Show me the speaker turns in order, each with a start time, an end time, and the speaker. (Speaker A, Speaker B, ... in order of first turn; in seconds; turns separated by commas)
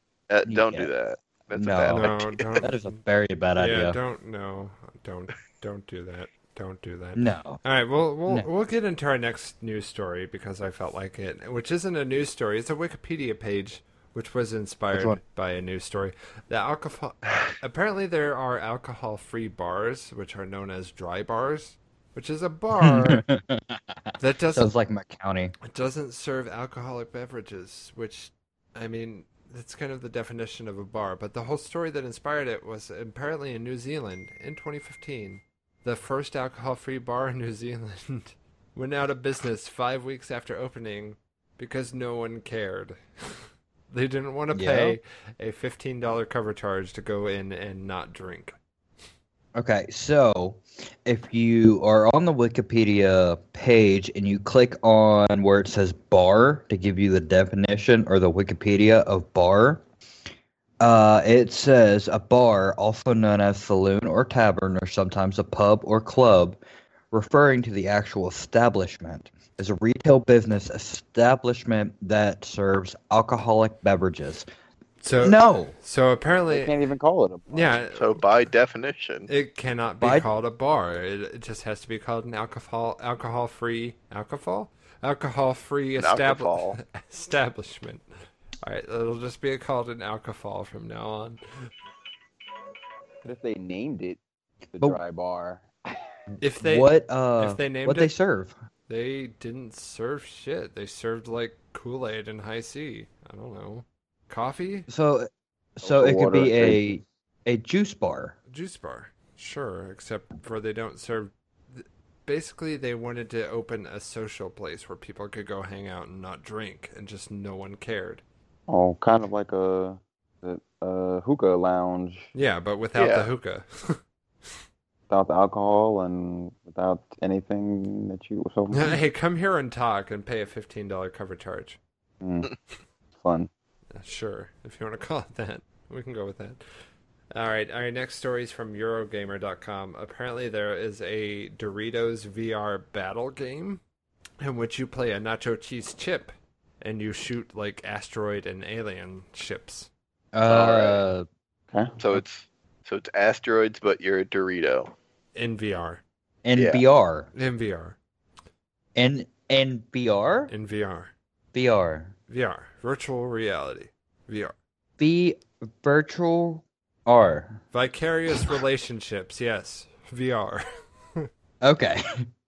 Speaker A: 0.3-2.5, Speaker B: 0.5-0.9, Speaker B: 1.6-4.0, Speaker C: 1.9-2.9, Speaker C: 3.6-23.2, Speaker B: 7.2-7.6, Speaker B: 14.9-15.2, Speaker B: 22.8-25.5, Speaker C: 24.2-24.7, Speaker C: 25.7-48.6, Speaker B: 44.5-45.0, Speaker B: 49.5-59.8, Speaker B: 60.8-66.6, Speaker B: 67.1-74.5, Speaker C: 75.0-76.8, Speaker B: 75.2-75.8, Speaker D: 76.5-77.8, Speaker C: 77.5-78.2, Speaker A: 78.0-79.3, Speaker C: 79.3-88.1, Speaker B: 80.0-80.3, Speaker A: 86.0-86.8, Speaker C: 88.6-91.4, Speaker D: 93.2-94.2, Speaker D: 94.7-96.0, Speaker C: 96.4-98.1, Speaker B: 96.6-98.5, Speaker C: 98.9-104.9, Speaker B: 104.9-108.3, Speaker D: 105.8-106.8, Speaker C: 108.5-118.2, Speaker D: 118.7-122.3, Speaker C: 122.3-124.0, Speaker A: 123.0-123.3, Speaker D: 125.1-129.0, Speaker C: 128.7-131.8, Speaker D: 132.2-132.5, Speaker D: 133.2-133.5, Speaker C: 133.9-136.6, Speaker C: 137.3-143.8, Speaker C: 144.4-149.9, Speaker B: 150.3-151.3, Speaker A: 150.5-151.0, Speaker A: 152.0-154.9, Speaker C: 155.3-156.0, Speaker B: 156.4-157.3, Speaker A: 156.6-156.8, Speaker C: 157.3-158.0, Speaker B: 159.0-160.5, Speaker C: 160.5-161.1, Speaker B: 161.5-162.1, Speaker C: 162.3-164.6, Speaker B: 165.0-167.6, Speaker C: 167.7-171.3, Speaker B: 171.6-172.3